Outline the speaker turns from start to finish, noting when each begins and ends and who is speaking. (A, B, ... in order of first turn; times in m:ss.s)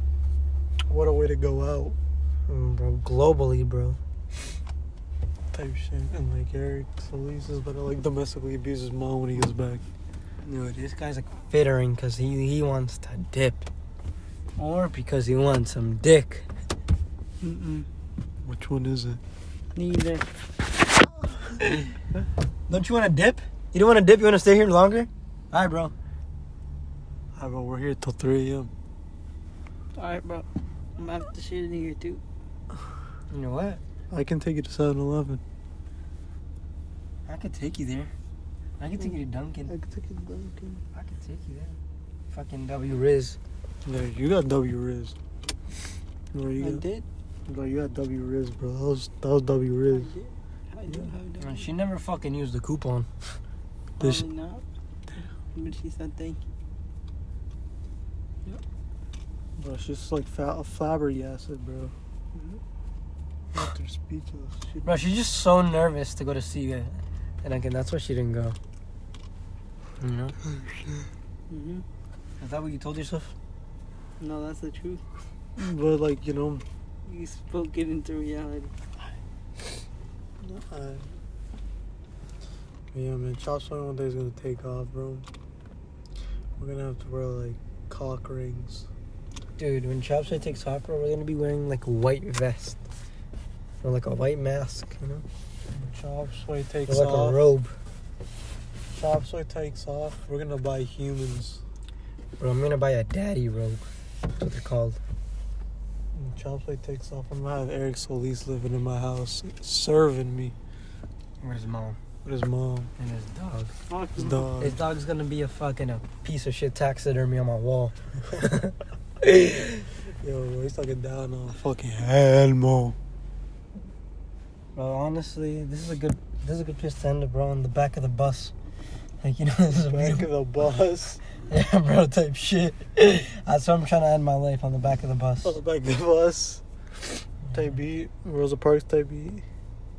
0:00.9-0:02.0 A
0:02.5-0:04.0 B
0:05.5-0:09.8 A
0:10.4-0:13.6 B
0:14.6-0:16.4 B
0:17.4-0:17.9 C
0:18.4-0:19.2 A
0:19.7-0:20.2 C
0:22.7-0:25.9 B
0:27.4-0:28.7 A
0:30.0-0:30.4 C
0:31.0-0:32.2 C
0:33.3-0:33.8 B
0:34.1-0:35.4 A
0:37.2-0:38.1 B
0:38.8-0:39.7 B
0:39.7-0:40.8 C
0:40.9-0:41.8 B
0:42.3-0:43.4 B
0:43.8-0:45.1 A
0:46.3-0:46.8 A
0:46.6-0:47.0 C
0:47.5-0:50.1 A
0:49.9-0:51.7 C
0:51.4-0:53.1 B
0:54.0-0:54.6 C
0:55.2-0:56.4 C
0:59.6-1:01.9 A
1:02.3-1:02.6 C
1:03.5-1:04.9 A
1:04.8-1:08.6 B
1:10.0-1:10.3 B
1:11.5-1:11.8 C
1:12.4-1:13.3 B
1:14.2-1:15.0 C
1:15.6-1:16.6 A
1:17.0-1:18.7 C
1:20.4-1:21.1 A
1:22.9-1:25.2 A
1:26.6-1:28.8 A
1:29.6-1:32.8 B
1:33.8-1:35.2 B
1:35.7-1:37.4 A
1:36.9-1:37.7 B
1:38.9-1:41.6 A
1:42.4-1:43.8 B
1:44.4-1:45.0 B
1:46.1-1:50.5 A
1:51.4-1:52.0 B
1:52.2-1:52.9 A
1:53.0-1:53.7 B
1:53.9-1:54.4 C
1:54.2-1:54.7 A
1:54.6-1:59.8 B
2:00.2-2:02.9 A
2:04.7-2:08.5 B
2:09.2-2:10.3 B
2:09.9-2:11.2 A
2:11.5-2:15.6 B
2:15.4-2:16.6 A
2:17.5-2:19.4 A